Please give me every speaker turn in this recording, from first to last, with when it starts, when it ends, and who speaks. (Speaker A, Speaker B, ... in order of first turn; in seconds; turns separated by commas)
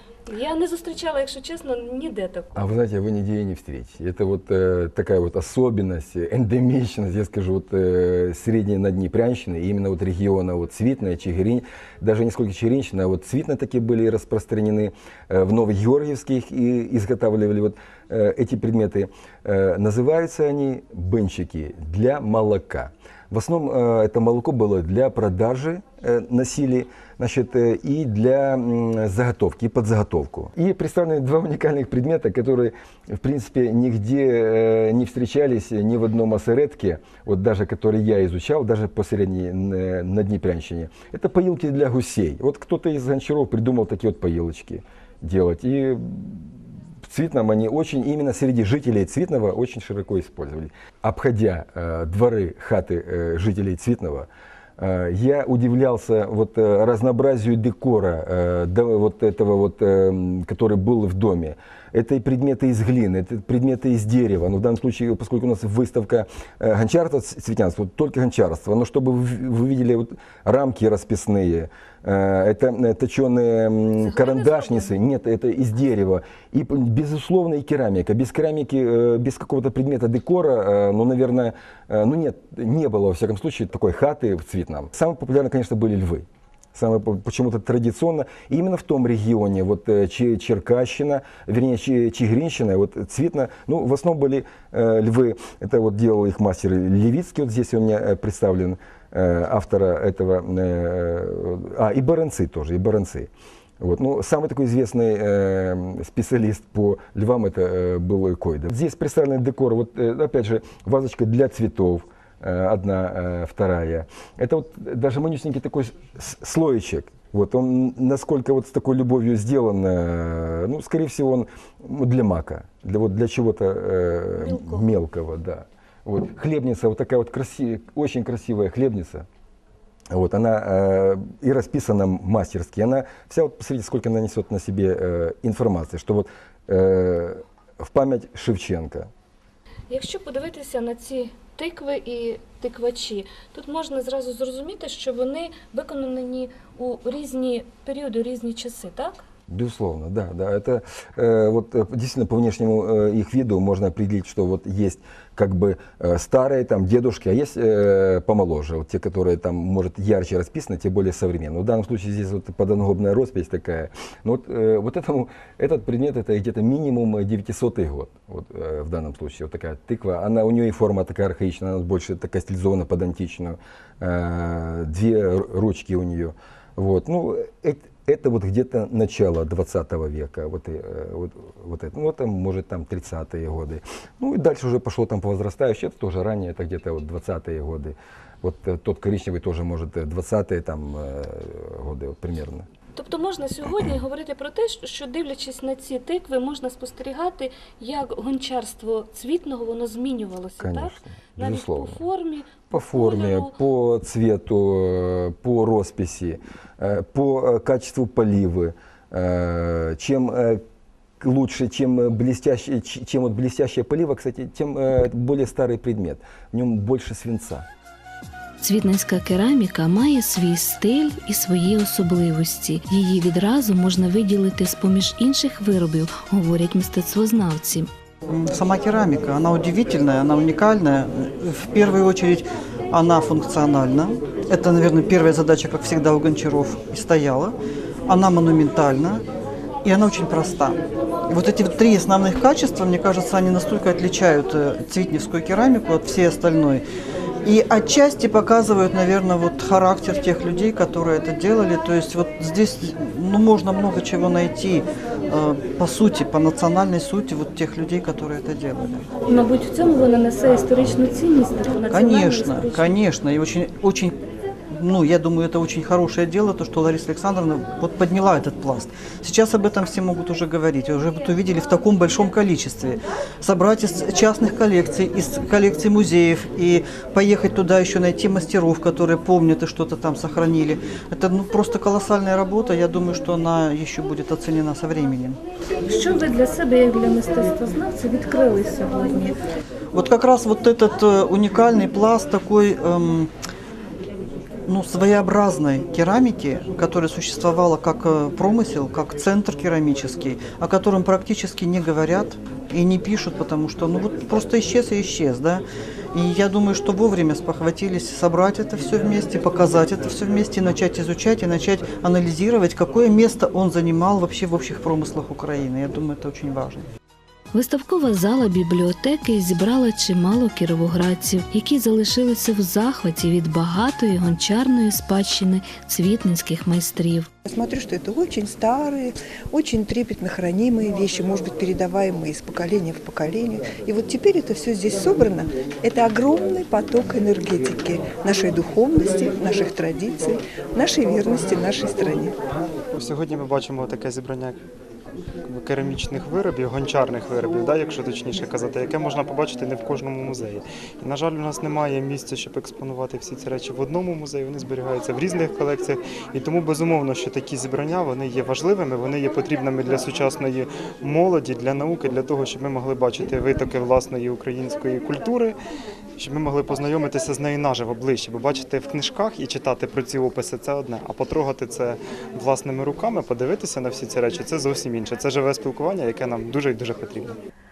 Speaker A: 0.3-2.5, Speaker B: 2.5-129.2, Speaker A: 74.0-74.9, Speaker A: 124.4-124.9, Speaker B: 130.1-139.1, Speaker A: 139.9-149.2, Speaker B: 149.5-192.7, Speaker A: 192.9-203.5, Speaker B: 200.6-202.0, Speaker B: 202.7-210.6, Speaker B: 211.2-217.7, Speaker C: 218.6-227.9, Speaker D: 228.3-239.2, Speaker D: 239.8-246.8, Speaker D: 247.4-259.1, Speaker A: 259.3-262.9, Speaker D: 261.9-285.4, Speaker A: 285.8-289.3, Speaker D: 289.9-293.3, Speaker D: 294.7-316.9, Speaker C: 317.5-327.3, Speaker E: 327.4-342.3, Speaker F: 342.9-344.6, Speaker F: 345.4-365.6, Speaker F: 366.2-377.3